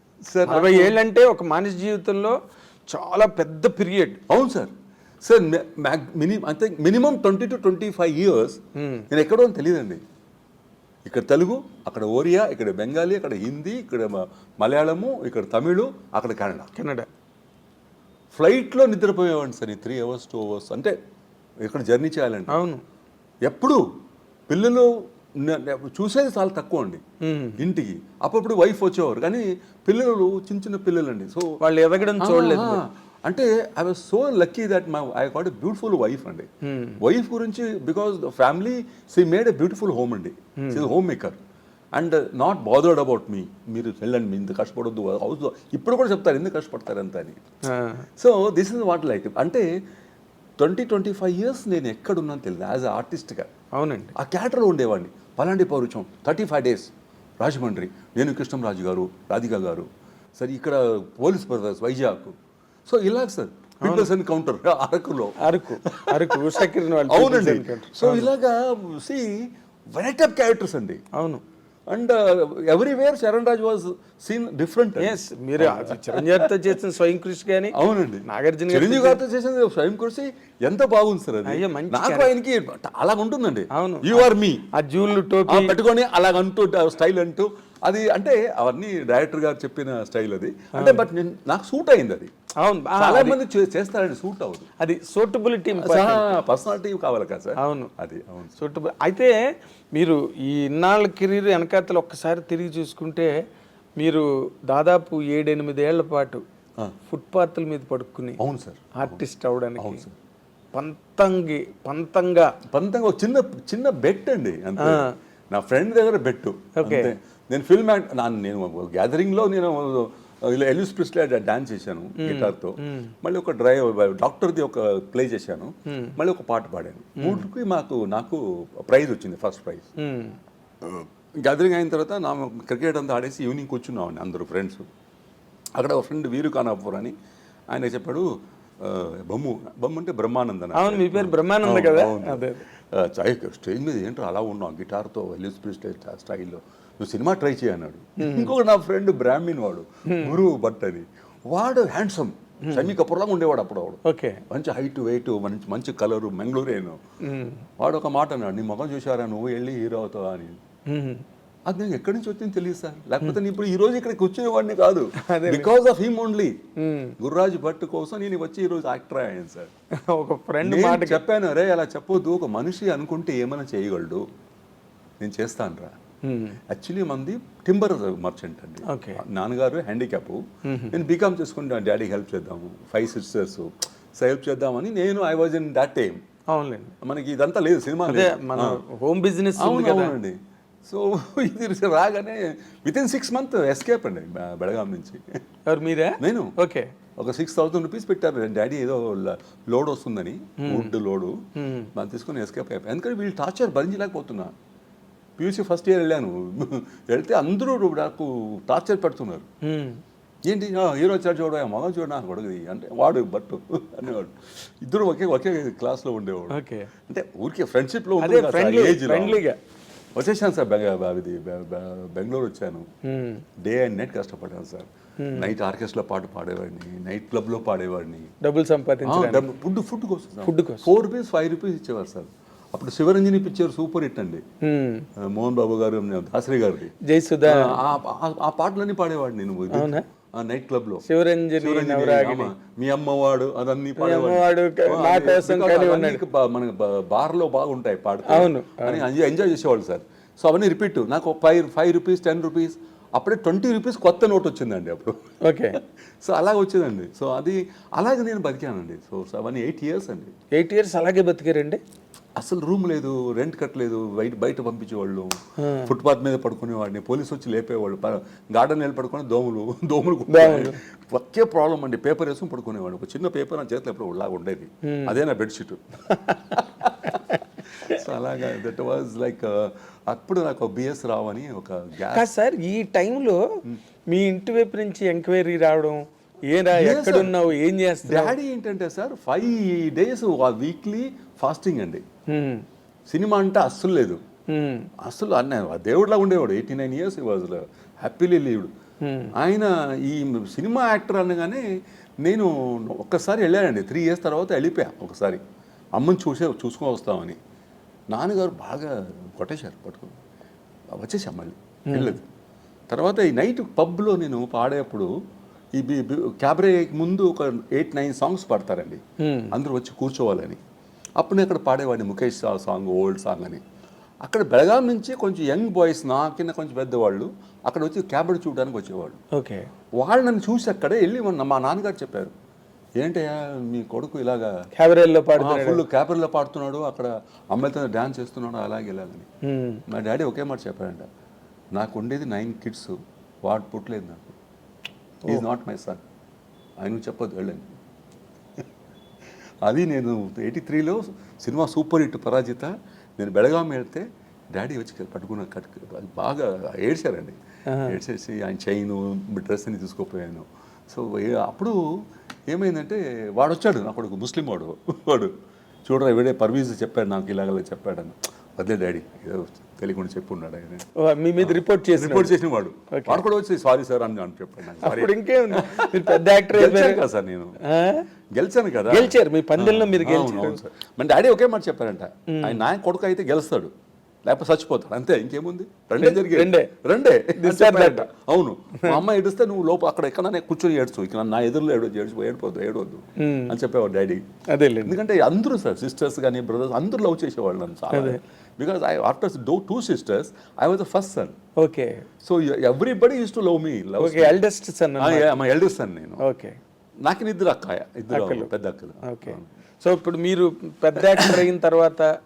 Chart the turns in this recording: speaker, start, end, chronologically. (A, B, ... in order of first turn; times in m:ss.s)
0:00.3-0:01.0 A
0:00.5-0:02.4 B
0:02.9-0:04.2 B
0:04.3-0:04.7 A
0:05.2-0:08.6 A
0:08.8-0:09.1 B
0:09.1-0:10.0 A
0:11.0-0:16.7 A
0:16.8-0:17.1 B
0:18.3-0:20.9 A
0:21.6-0:22.6 A
0:22.5-0:22.8 B
0:23.4-0:23.8 A
0:24.5-0:27.0 A
0:27.2-0:27.6 B
0:27.6-0:31.5 A
0:31.6-0:32.8 B
0:32.2-0:36.5 A
0:36.7-0:37.0 B
0:37.0-0:41.4 A
0:40.6-0:40.8 B
0:42.0-0:47.4 A
0:47.7-0:48.0 B
0:48.2-0:49.7 A
0:50.6-0:53.5 A
0:53.7-0:54.1 B
0:54.2-0:56.9 A
0:57.4-1:02.3 A
1:02.9-1:11.0 A
1:03.8-1:04.1 B
1:05.4-1:08.3 B
1:11.1-1:11.4 B
1:11.9-1:16.6 A
1:15.0-1:19.2 B
1:17.7-1:24.7 A
1:21.5-1:22.3 B
1:23.7-1:25.8 B
1:25.4-1:32.3 A
1:30.7-1:31.0 B
1:32.6-1:33.4 B
1:33.0-1:34.7 A
1:34.8-1:36.3 B
1:35.8-1:38.5 A
1:37.6-1:37.9 B
1:38.6-1:39.3 B
1:39.9-1:43.3 B
1:44.0-1:46.4 B
1:47.1-1:48.4 B
1:48.4-1:49.2 A
1:48.9-1:50.0 B
1:49.8-1:50.1 A
1:50.7-1:52.5 B
1:52.7-2:09.9 A
1:54.8-1:55.1 B
1:56.8-1:57.1 B
2:02.2-2:03.1 B
2:05.9-2:06.2 B
2:07.2-2:07.4 B
2:10.0-2:10.4 B
2:10.8-2:14.8 A
2:15.8-2:17.1 A
2:17.7-2:18.3 A
2:18.8-2:34.0 A
2:20.7-2:22.6 B
2:28.2-2:28.5 B
2:30.1-2:30.4 B
2:34.0-2:34.4 B
2:34.5-2:37.0 A
2:37.2-2:37.6 B
2:37.8-2:40.6 A
2:40.9-2:41.2 B
2:41.7-2:46.6 A
2:45.2-2:45.7 B
2:46.8-2:47.2 B
2:47.2-2:49.7 A
2:50.0-2:51.2 B
2:50.6-2:54.2 A
2:55.2-2:56.0 A
2:56.2-2:56.6 B
2:56.7-3:00.4 A
2:58.9-2:59.2 B
3:00.6-3:01.0 B
3:00.9-3:06.2 A
3:06.5-3:06.9 B
3:07.0-3:08.8 A
3:08.1-3:10.2 B
3:09.6-3:15.2 A
3:15.7-3:16.9 B
3:16.2-3:16.5 A
3:17.2-3:21.4 A
3:20.6-3:20.9 B
3:21.6-3:21.9 B
3:21.9-3:24.5 A
3:25.4-3:29.4 A
3:29.6-3:30.0 B
3:30.4-3:36.6 A
3:36.5-3:36.9 B
3:37.1-3:39.4 A
3:38.2-3:39.6 B
3:40.1-3:42.8 A
3:43.1-3:43.4 B
3:43.6-3:48.3 A
3:45.2-3:45.5 B
3:48.4-3:49.4 B
3:49.0-3:54.4 A
3:50.4-3:50.9 B
3:54.6-3:55.1 B
3:55.2-3:56.9 A
3:57.0-3:57.8 B
3:57.4-4:01.0 A
3:59.7-4:00.0 B
4:01.1-4:02.5 B
4:01.6-4:20.3 A
4:04.0-4:06.2 B
4:08.2-4:09.0 B
4:15.4-4:15.8 B
4:20.5-4:21.8 B
4:22.4-4:37.1 A
4:25.6-4:25.9 B
4:30.3-4:30.8 B
4:34.8-4:35.2 B
4:36.1-4:38.0 B
4:37.7-4:42.3 A
4:42.1-4:43.4 B
4:44.1-4:46.0 B
4:46.5-4:48.4 B
4:46.7-4:47.4 A
4:48.0-4:52.0 A
4:52.3-4:52.6 B
4:53.1-4:54.2 A
4:54.5-4:54.9 B
4:55.0-4:58.7 A
4:59.0-4:59.3 B
4:59.4-5:01.6 A
5:02.2-5:05.4 A
5:06.0-5:07.4 A
5:08.1-5:10.1 A
5:11.0-5:12.2 A
5:11.9-5:12.1 B
5:12.9-5:15.1 A
5:15.8-5:19.0 A
5:19.2-5:19.5 B
5:19.5-5:20.6 A
5:21.2-5:23.6 A
5:24.2-5:29.2 A
5:29.3-5:29.7 B
5:30.0-5:32.3 A
5:33.0-5:34.5 A
5:34.7-5:35.8 B
5:35.4-5:39.2 A
5:39.4-5:39.8 B
5:39.9-5:41.1 A
5:41.7-5:42.9 A
5:43.4-5:44.3 A
5:45.2-5:46.0 A
5:46.8-5:47.6 A
5:49.6-6:01.8 A
5:57.7-5:58.0 B
6:02.5-6:05.3 A
6:05.9-6:10.8 A
6:11.0-6:12.3 B
6:11.4-6:17.6 A
6:12.9-6:13.2 B
6:14.8-6:17.0 B
6:17.6-6:18.0 B
6:18.3-6:23.7 A
6:18.9-6:20.6 B
6:22.3-6:22.6 B
6:24.2-6:34.2 A
6:26.0-6:26.7 B
6:27.4-6:28.1 B
6:33.2-6:33.6 B
6:34.5-6:34.9 B
6:34.8-6:41.3 A
6:37.9-6:38.2 B
6:41.6-6:42.0 B
6:42.2-6:44.4 A
6:44.0-6:45.3 B
6:45.0-6:46.2 A
6:46.2-6:46.6 B
6:47.0-6:49.5 A
6:48.1-6:48.5 B
6:49.0-6:52.1 B
6:51.2-6:51.4 A